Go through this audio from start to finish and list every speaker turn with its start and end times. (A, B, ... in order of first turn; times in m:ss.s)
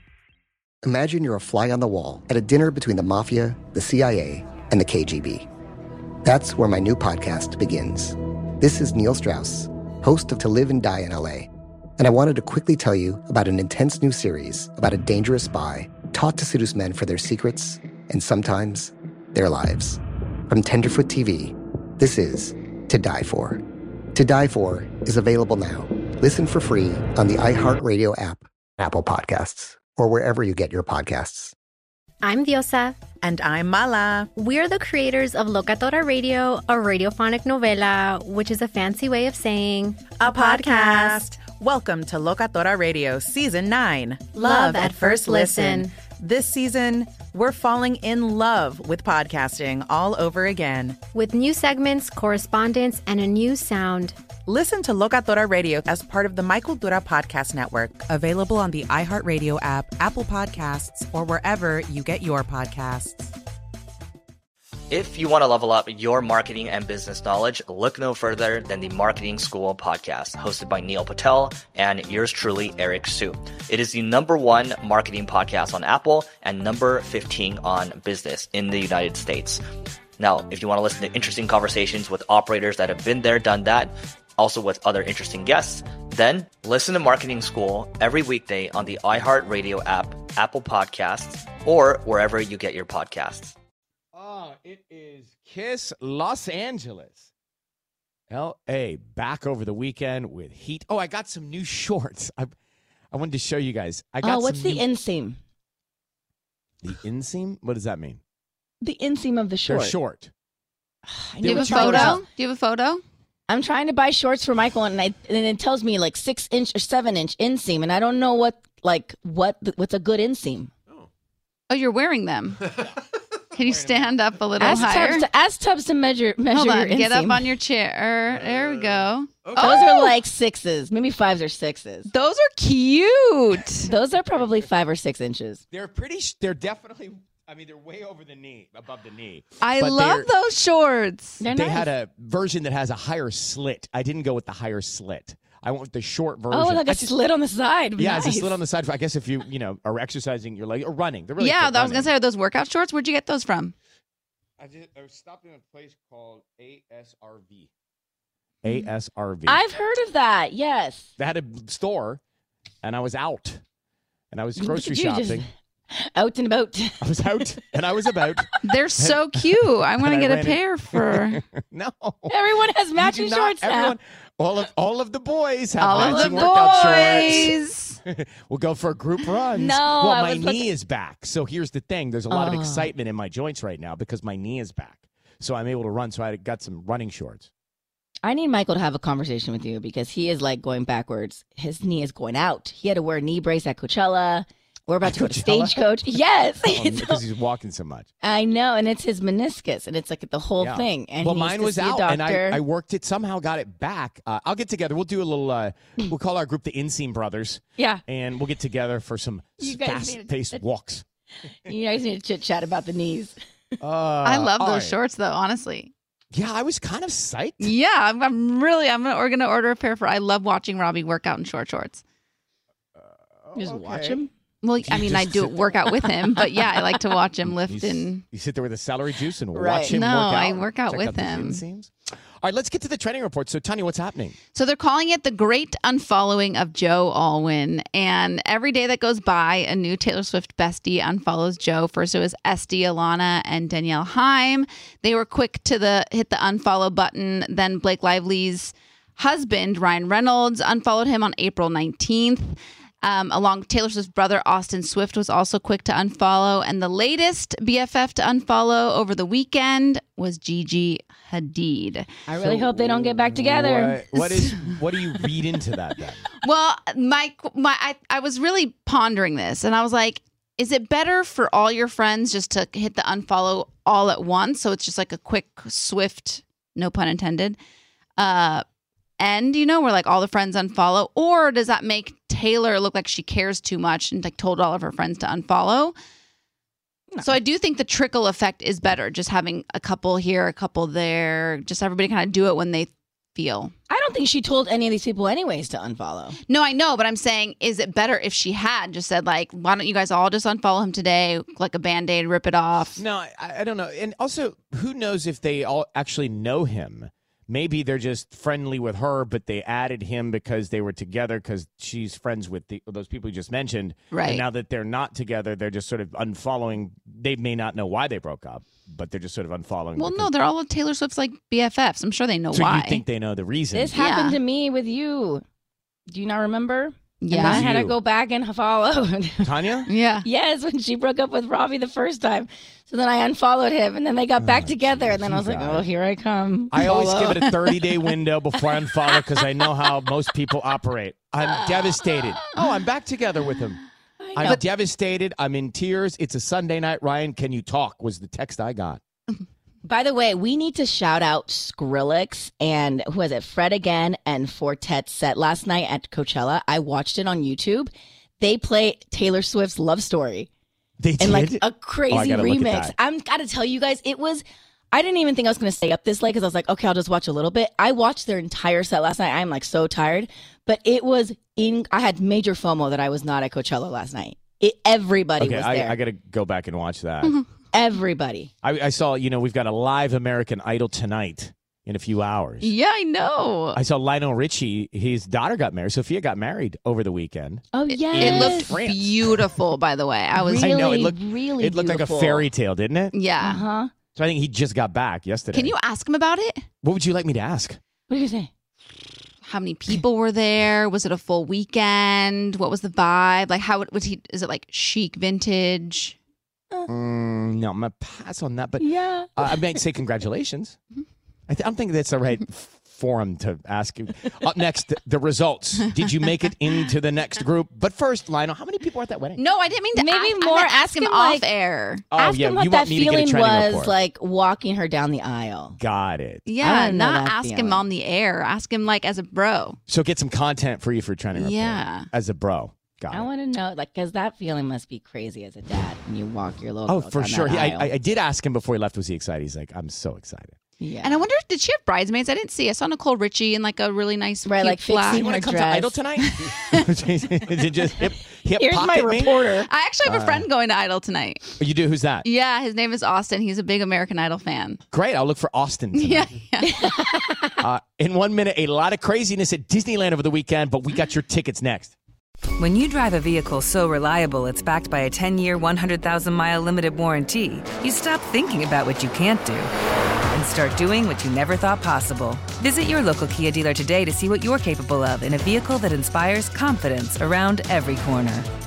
0:00.8-0:05.5 A
0:06.2-0:23.6 A
0:24.2-0:31.5 A
0:32.2-0:33.0 B
0:33.2-0:34.3 C
0:34.4-0:40.7 B
0:40.2-0:51.0 C
0:44.5-0:44.9 B
0:44.6-0:45.8 D
0:51.1-0:54.2 B
0:54.5-1:03.3 C
1:04.9-1:19.6 E
1:20.2-1:33.6 E
1:34.1-1:37.3 F
1:38.3-1:42.5 F
1:43.1-1:44.9 F
1:44.2-1:45.4 D
1:46.8-1:48.2 F
1:48.8-1:50.0 D
1:49.6-1:50.3 F
1:51.1-1:52.2 D
1:51.4-1:52.2 F
1:51.4-1:53.0 G
1:53.5-2:00.7 D
2:01.7-2:02.7 G
2:03.5-2:05.3 G
2:04.6-2:07.5 D
2:04.7-2:05.1 F
2:06.5-2:10.2 G
2:08.3-2:10.2 F
2:09.6-2:12.1 D
2:12.1-2:13.9 G
2:13.8-2:15.6 D
2:15.7-2:20.3 F
2:19.6-2:21.4 G
2:21.4-2:21.9 D
2:21.5-2:27.2 F
2:26.5-2:28.6 D
2:28.0-2:32.1 F
2:31.4-2:33.8 G
2:34.6-2:37.7 F
2:38.6-2:39.6 F
2:39.5-2:41.1 D
2:41.2-2:42.2 F
2:42.8-2:43.6 F
2:44.3-2:45.5 F
2:44.6-2:47.4 D
2:47.0-2:57.5 F
2:48.6-2:51.4 G
2:52.3-2:54.0 D
2:55.8-2:58.0 G
2:56.0-2:57.5 D
2:58.0-3:07.5 F
2:59.5-3:00.7 D
3:02.3-3:02.9 D
3:08.2-3:17.2 D
3:15.0-3:16.0 F
3:16.6-3:18.1 F
3:18.2-3:22.6 D
3:20.6-3:31.0 F
3:29.6-3:30.6 D
3:31.7-3:33.4 D
3:33.8-3:35.0 F
3:34.2-3:35.9 G
3:36.3-3:37.7 F
3:37.6-3:42.0 G
3:43.0-3:44.2 F
3:43.6-3:44.3 D
3:44.6-3:48.2 G
3:44.8-3:46.9 F
3:47.5-3:54.4 F
3:49.5-3:50.0 D
3:49.9-3:51.6 G
3:54.5-4:22.1 G
4:22.3-4:24.0 D
4:22.4-4:26.2 F
4:24.2-4:24.6 G
4:26.4-4:37.6 G
4:38.2-4:38.6 G
4:39.2-4:45.9 G
4:47.2-4:53.7 G
4:53.9-4:56.4 D
4:56.5-5:03.0 G
5:03.0-5:20.3 F
5:14.1-5:14.4 G
5:20.0-5:23.0 G
5:22.5-5:24.0 F
5:23.7-5:25.4 D
5:23.9-5:24.4 G
5:26.1-5:29.7 D
5:27.2-5:27.7 G
5:27.4-5:28.0 F
5:29.4-5:29.9 F
5:29.9-5:30.3 G
5:30.2-5:38.1 D
5:34.4-5:35.9 F
5:36.7-5:43.8 F
5:39.2-5:39.4 D
5:41.6-5:42.6 D
5:44.2-5:44.6 D
5:44.3-5:49.0 F
5:49.8-6:00.5 D
6:01.0-6:02.9 F
6:01.2-6:16.0 D
6:15.4-6:17.4 F
6:17.7-6:18.5 D
6:18.6-6:22.7 F
6:22.6-6:23.8 G
6:23.7-6:29.3 F
6:27.7-6:28.8 D
6:27.9-6:31.0 G
6:30.4-6:32.5 D
6:30.4-6:33.2 F
6:33.1-6:33.6 G
6:33.4-6:33.9 D
6:34.1-6:35.7 F
6:35.5-6:36.6 G
6:36.8-6:37.8 F
6:38.1-6:38.5 D
6:39.4-6:46.2 G
6:46.9-6:50.8 F
6:48.8-6:49.5 D
6:51.5-6:59.4 F
6:59.4-7:02.0 G
7:00.0-7:01.5 D
7:02.1-7:04.0 F
7:02.2-7:05.8 D
7:05.8-7:06.5 F
7:06.4-7:09.8 G
7:06.6-7:07.8 D
7:09.9-7:13.3 F
7:11.4-7:12.1 G
7:13.1-7:18.0 D
7:16.9-7:20.6 F
7:20.8-7:21.2 D
7:21.0-7:25.3 G
7:24.4-7:26.0 D
7:25.1-7:30.5 F
7:26.2-7:26.6 G
7:28.6-7:29.7 D
7:29.6-7:31.5 G
7:31.6-7:32.3 F
7:32.2-7:34.8 G
7:34.9-7:36.3 F
7:35.9-7:37.0 G
7:36.7-7:37.5 D
7:37.6-7:42.0 F
7:42.6-7:49.7 H
7:50.3-7:58.2 H